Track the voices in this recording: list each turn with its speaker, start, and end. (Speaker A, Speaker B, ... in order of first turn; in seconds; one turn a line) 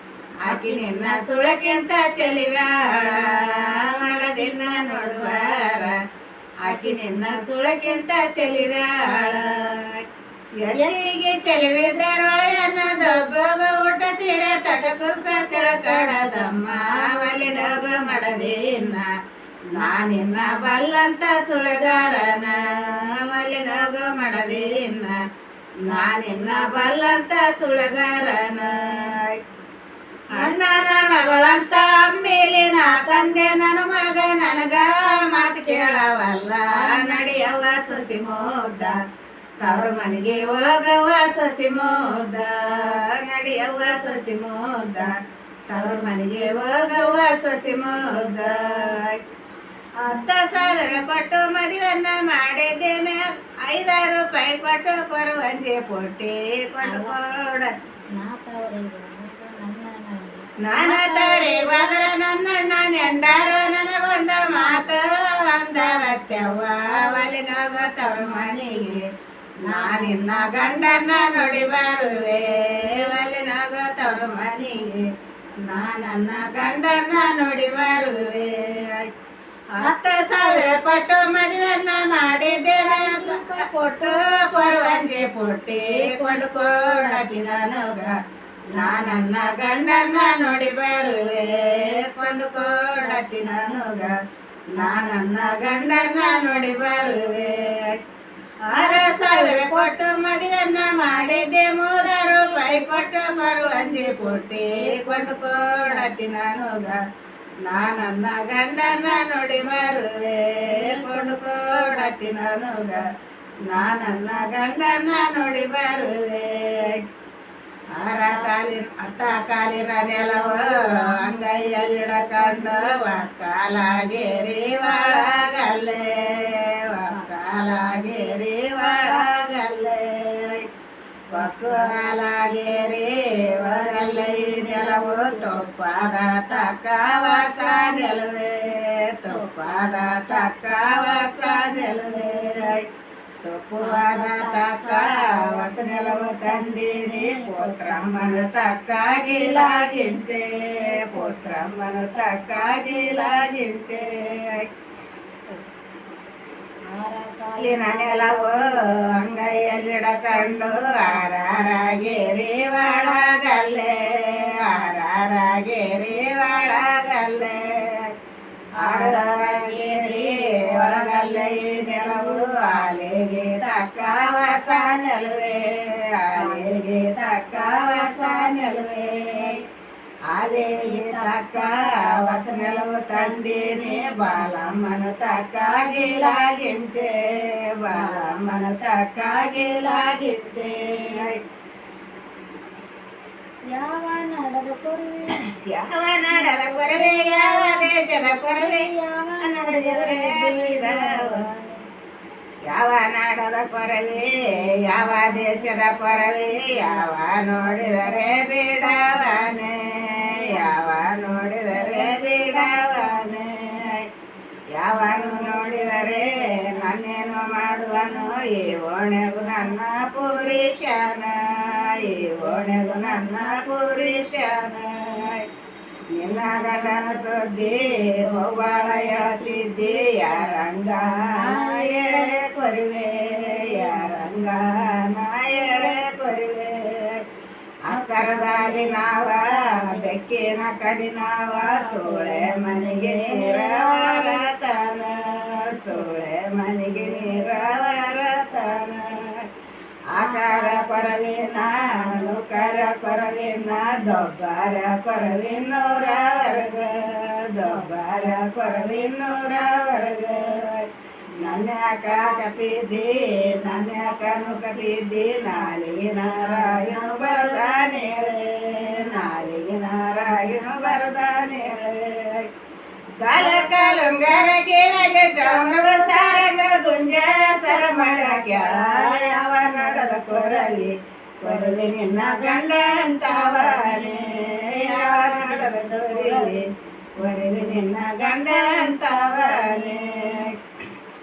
Speaker A: 0.4-6.0
Speaker B: 0.5-1.7
Speaker B: 4.2-5.9
Speaker A: 6.6-10.0
Speaker B: 6.7-7.4
Speaker A: 10.6-19.1
Speaker B: 14.8-18.8
Speaker A: 19.7-25.2
Speaker A: 25.9-29.4
Speaker B: 30.4-30.6
Speaker A: 30.4-39.0
Speaker B: 32.9-33.5
Speaker B: 35.6-36.0
Speaker B: 36.8-37.2
Speaker A: 39.6-45.2
Speaker A: 45.7-49.2
Speaker B: 45.8-46.0
Speaker B: 48.0-48.9
Speaker A: 50.0-57.7
Speaker B: 50.1-50.9
Speaker B: 56.8-57.2
Speaker B: 58.2-62.0
Speaker A: 60.6-69.0
Speaker B: 64.6-64.8
Speaker B: 66.0-66.3
Speaker B: 68.2-68.8
Speaker B: 69.6-71.5
Speaker A: 69.6-75.0
Speaker A: 75.6-79.0
Speaker A: 79.8-88.1
Speaker B: 79.8-80.8
Speaker B: 82.5-85.2
Speaker B: 85.8-87.3
Speaker A: 88.7-94.1
Speaker B: 88.8-89.2
Speaker B: 93.0-93.7
Speaker A: 94.8-98.0
Speaker B: 94.8-95.2
Speaker A: 98.7-107.0
Speaker B: 98.8-100.0
Speaker B: 102.3-106.1
Speaker A: 107.6-113.0
Speaker B: 110.7-112.1
Speaker A: 113.7-117.0
Speaker A: 118.0-130.7
Speaker B: 118.2-118.5
Speaker B: 120.1-123.2
Speaker B: 124.8-125.4
Speaker B: 127.9-129.3
Speaker A: 131.3-142.8
Speaker B: 131.3-132.3
Speaker B: 133.5-135.7
Speaker B: 136.5-138.2
Speaker B: 139.3-139.5
Speaker B: 140.1-142.8
Speaker A: 143.4-154.7
Speaker B: 143.8-148.2
Speaker B: 149.3-151.6
Speaker B: 152.7-153.5
Speaker B: 156.9-159.0
Speaker A: 157.6-168.1
Speaker B: 160.3-161.3
Speaker B: 168.8-174.4
Speaker A: 168.8-179.6
Speaker B: 176.3-179.7
Speaker A: 180.3-191.4
Speaker B: 180.5-184.7
Speaker B: 185.6-186.8
Speaker B: 187.9-188.3
Speaker B: 193.7-195.4
Speaker A: 195.5-198.9
Speaker B: 196.3-201.8
Speaker A: 199.4-201.4
Speaker A: 202.7-214.1
Speaker B: 205.0-208.4
Speaker B: 209.0-209.4
Speaker B: 210.0-210.8
Speaker B: 211.7-213.4
Speaker A: 214.8-225.4
Speaker B: 214.9-218.4
Speaker B: 219.4-219.8
Speaker B: 221.5-223.4
Speaker A: 226.2-237.2
Speaker B: 226.3-230.4
Speaker B: 231.3-232.4
Speaker B: 233.2-234.2
Speaker B: 235.5-236.0
Speaker A: 237.9-249.4
Speaker B: 237.9-240.2
Speaker B: 241.5-244.5
Speaker B: 245.7-246.2
Speaker B: 246.9-247.7
Speaker A: 250.1-260.9
Speaker B: 250.2-253.0
Speaker B: 257.6-257.9
Speaker A: 261.4-272.5
Speaker B: 263.9-264.7
Speaker B: 266.3-269.4
Speaker B: 270.2-271.0
Speaker A: 273.2-286.6
Speaker B: 273.3-274.1
Speaker B: 275.4-276.4
Speaker B: 277.6-280.9
Speaker B: 281.4-286.6
Speaker A: 287.2-290.5
Speaker B: 287.2-287.8
Speaker B: 288.4-290.5